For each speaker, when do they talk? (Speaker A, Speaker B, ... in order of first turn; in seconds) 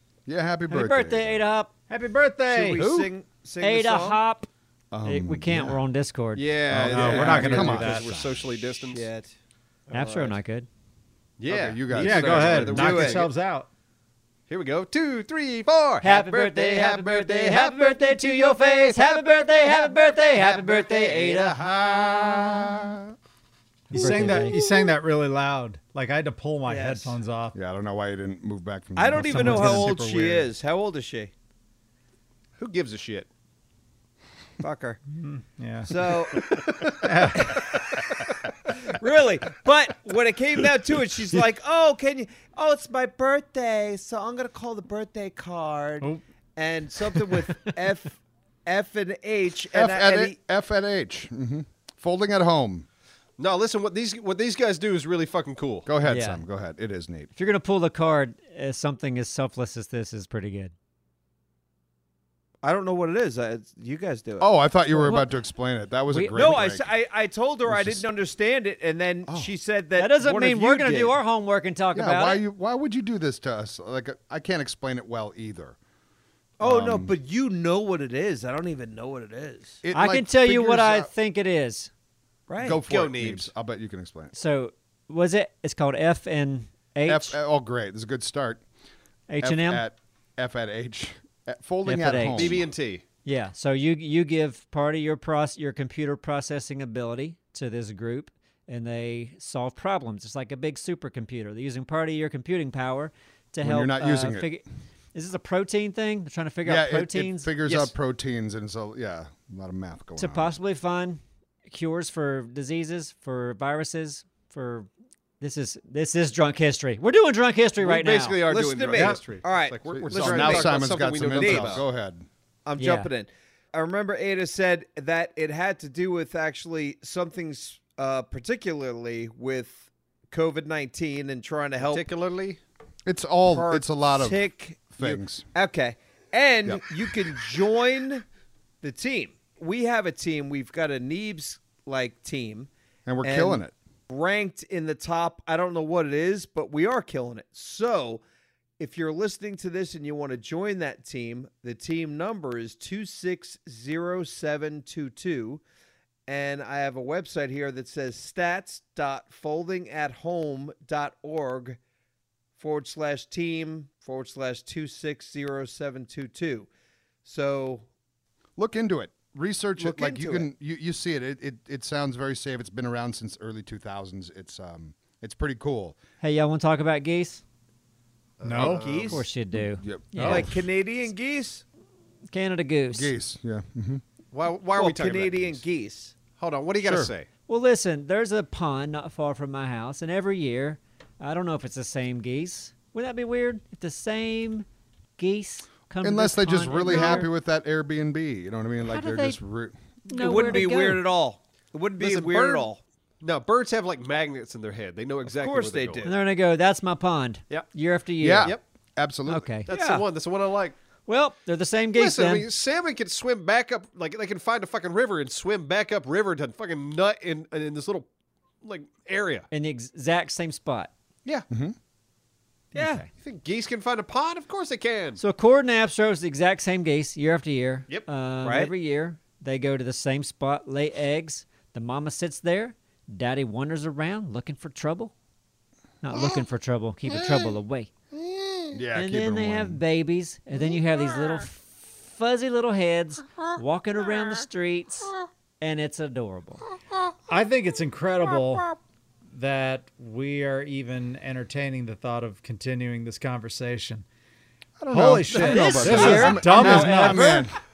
Speaker A: 0.2-1.4, 4.9-5.8, 6.7-8.7, 11.5-13.0, 23.9-24.5, 27.5-30.0, 49.7-52.9, 55.9-57.3, 64.4-66.9, 67.7-68.0, 71.9-75.8, 76.6-77.1, 79.8-81.1, 82.6-84.3, 87.1-88.6, 89.4-92.7, 103.6-104.5, 106.6-110.6, 119.9-122.2, 133.0-134.4, 134.9-135.4, 143.1-143.7, 168.6-176.0, 179.5-180.5, 182.9-184.0, 186.8-187.1, 196.0-200.5, 208.2-209.5, 221.5-221.8, 238.7-239.8, 254.8-257.5
Speaker B: 0.7-1.7, 3.6-4.5, 5.0-7.3, 9.9-10.7, 16.0-21.6, 23.9-24.6, 56.0-56.4, 57.3-60.7, 66.1-66.6, 70.0-72.4, 79.9-81.9, 84.3-87.4, 89.3-89.8, 91.8-92.6, 93.2-107.5, 110.2-114.9, 115.4-118.4, 122.8-123.1, 176.2-177.4, 179.1-180.5, 182.3-183.1, 187.5-194.7, 195.2-197.3, 198.8-199.4, 200.1-201.0, 206.0-208.6, 209.3-209.7, 211.1-212.5, 219.5-220.9, 222.7-223.1, 225.2-235.1, 236.0-237.9, 238.9-246.6, 255.3-257.4
Speaker C: 1.9-3.1, 6.7-8.1, 11.9-13.7, 23.9-27.6, 29.1-30.5, 35.1-35.9, 37.0-37.7, 178.4-178.8, 247.3-248.8, 249.3-254.0, 254.9-257.4
Speaker D: 2.5-4.2, 8.9-9.3, 12.6-13.3, 20.0-21.3, 26.7-27.2, 28.9-31.3, 34.6-35.0, 35.8-36.5, 37.4-37.6, 38.7-50.4, 62.6-65.3, 66.3-71.2, 76.6-79.8, 82.5-82.8, 118.5-121.8, 122.7-132.0, 133.5-138.2, 138.8-142.7, 143.2-148.2, 148.8-155.6, 156.3-161.8, 162.6-166.7, 167.2-167.9, 169.8-170.5, 178.5-179.2, 180.2-181.6, 184.7-186.1, 196.9-197.2, 200.1-202.8, 205.2-206.2, 209.7-210.0, 222.7-223.0, 228.4-228.7, 255.9-257.3
Speaker E: 6.3-9.1, 9.9-10.4, 11.4-13.3, 14.5-19.2, 20.4-22.8, 32.6-33.3, 36.3-37.8, 53.4-55.9, 82.9-83.5, 92.3-93.0, 107.6-107.9, 117.8-121.8, 131.8-132.6, 178.4-179.2, 184.3-185.6, 186.4-187.3, 202.0-202.7, 203.2-206.1, 209.7-210.8, 211.9-218.1, 218.6-219.5, 223.2-225.2